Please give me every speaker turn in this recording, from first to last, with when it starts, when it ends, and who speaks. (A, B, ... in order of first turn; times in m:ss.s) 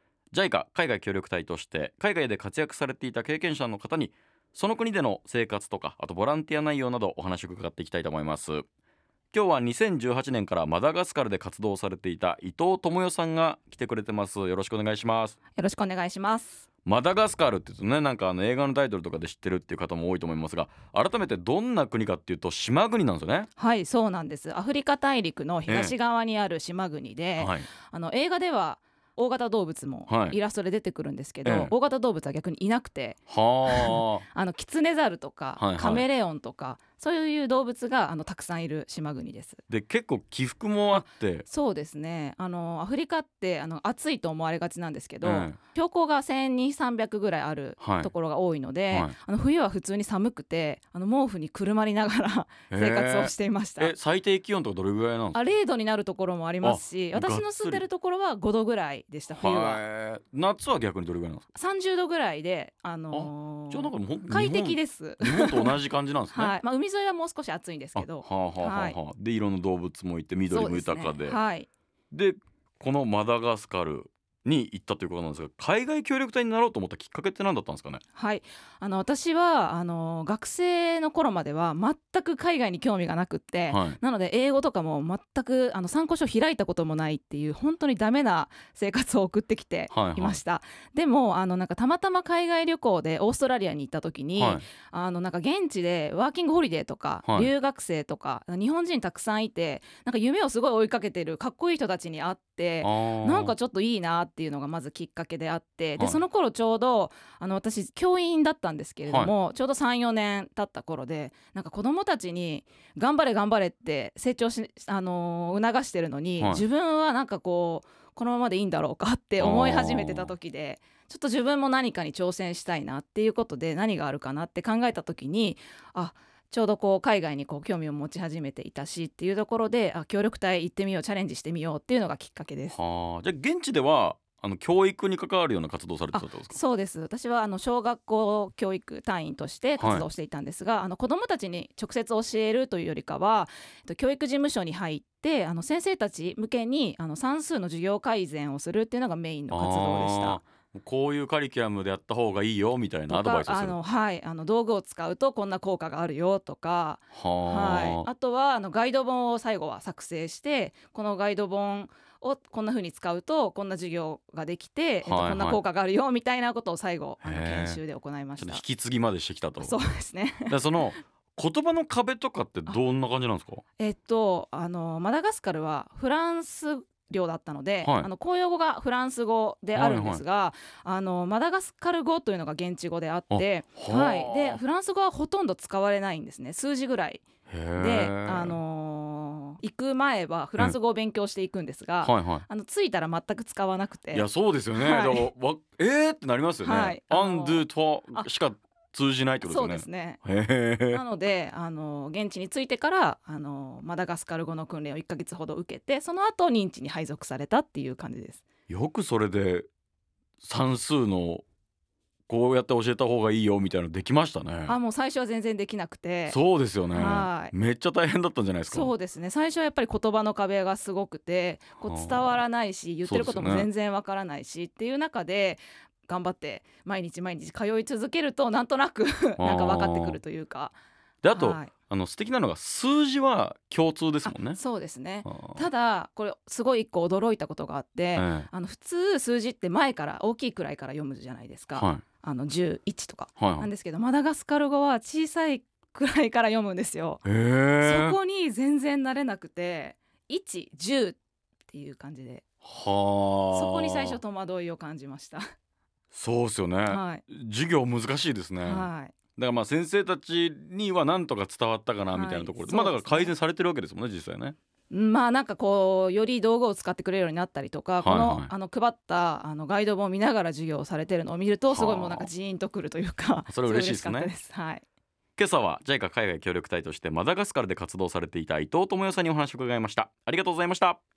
0:00.3-0:08.6 A
0:09.3-0:15.4 A
0:15.6-0:16.6 B
0:16.8-0:23.5 A
0:23.6-0:39.6 B
0:25.7-0:25.9 A
0:27.4-0:27.7 A
0:30.1-0:30.4 A
0:31.4-0:31.7 A
0:33.3-0:34.2 A
0:35.6-0:36.0 A
0:39.7-0:41.4 A
0:40.9-0:53.9 B
0:45.2-0:45.6 A
0:47.8-0:48.1 A
0:52.7-0:55.4 A
0:55.3-0:59.8 B
0:56.6-0:57.8 A
0:59.3-1:01.4 A
1:01.5-1:05.8 B
1:03.1-1:06.6 A
1:06.3-1:09.0 B
1:08.0-1:11.4 A
1:10.5-1:11.7 B
1:12.1-1:18.0 A
1:18.1-2:12.8 B
1:23.7-1:24.0 A
1:29.9-1:30.4 A
1:34.4-1:34.6 A
1:37.2-1:37.5 A
1:42.8-1:43.5 A
1:49.1-1:49.3 A
1:59.4-2:00.3 A
2:12.7-2:16.6 A
2:16.1-2:30.4 B
2:19.8-2:20.0 A
2:29.5-2:33.8 A
2:33.1-2:48.6 B
2:37.1-2:38.1 A
2:45.0-2:45.6 A
2:47.2-2:47.8 A
2:48.4-2:49.8 A
2:49.6-2:50.6 B
2:50.5-2:53.6 A
2:53.8-3:07.2 B
2:57.8-2:58.1 A
2:59.7-3:00.2 A
3:03.3-3:04.6 A
3:07.5-3:08.6 A
3:07.8-3:15.3 B
3:12.0-3:12.4 A
3:14.1-3:21.0 A
3:16.6-3:18.2 B
3:19.4-3:20.2 B
3:20.9-3:28.4 B
3:28.7-3:29.7 A
3:30.4-3:31.4 A
3:32.3-3:34.7 A
3:34.7-3:36.4 B
3:36.3-3:38.9 A
3:36.9-3:37.5 B
3:38.7-3:50.7 B
3:41.8-3:42.4 A
3:43.0-3:43.7 A
3:49.4-3:50.2 A
3:51.2-3:54.6 A
3:51.3-3:51.7 B
3:54.2-4:07.2 B
3:55.2-3:55.6 A
3:58.1-3:58.5 A
4:01.7-4:02.0 A
4:03.4-4:03.7 A
4:07.2-4:08.2 A
4:07.8-4:11.2 B
4:11.7-4:12.4 B
4:12.6-4:14.2 A
4:13.5-4:15.4 B
4:16.1-4:24.6 A
4:16.9-4:17.2 B
4:18.6-4:19.1 B
4:22.1-4:23.3 B
4:24.9-4:34.8 B
4:28.0-4:28.5 A
4:31.7-4:32.3 A
4:33.5-4:34.3 A
4:35.4-4:41.0 A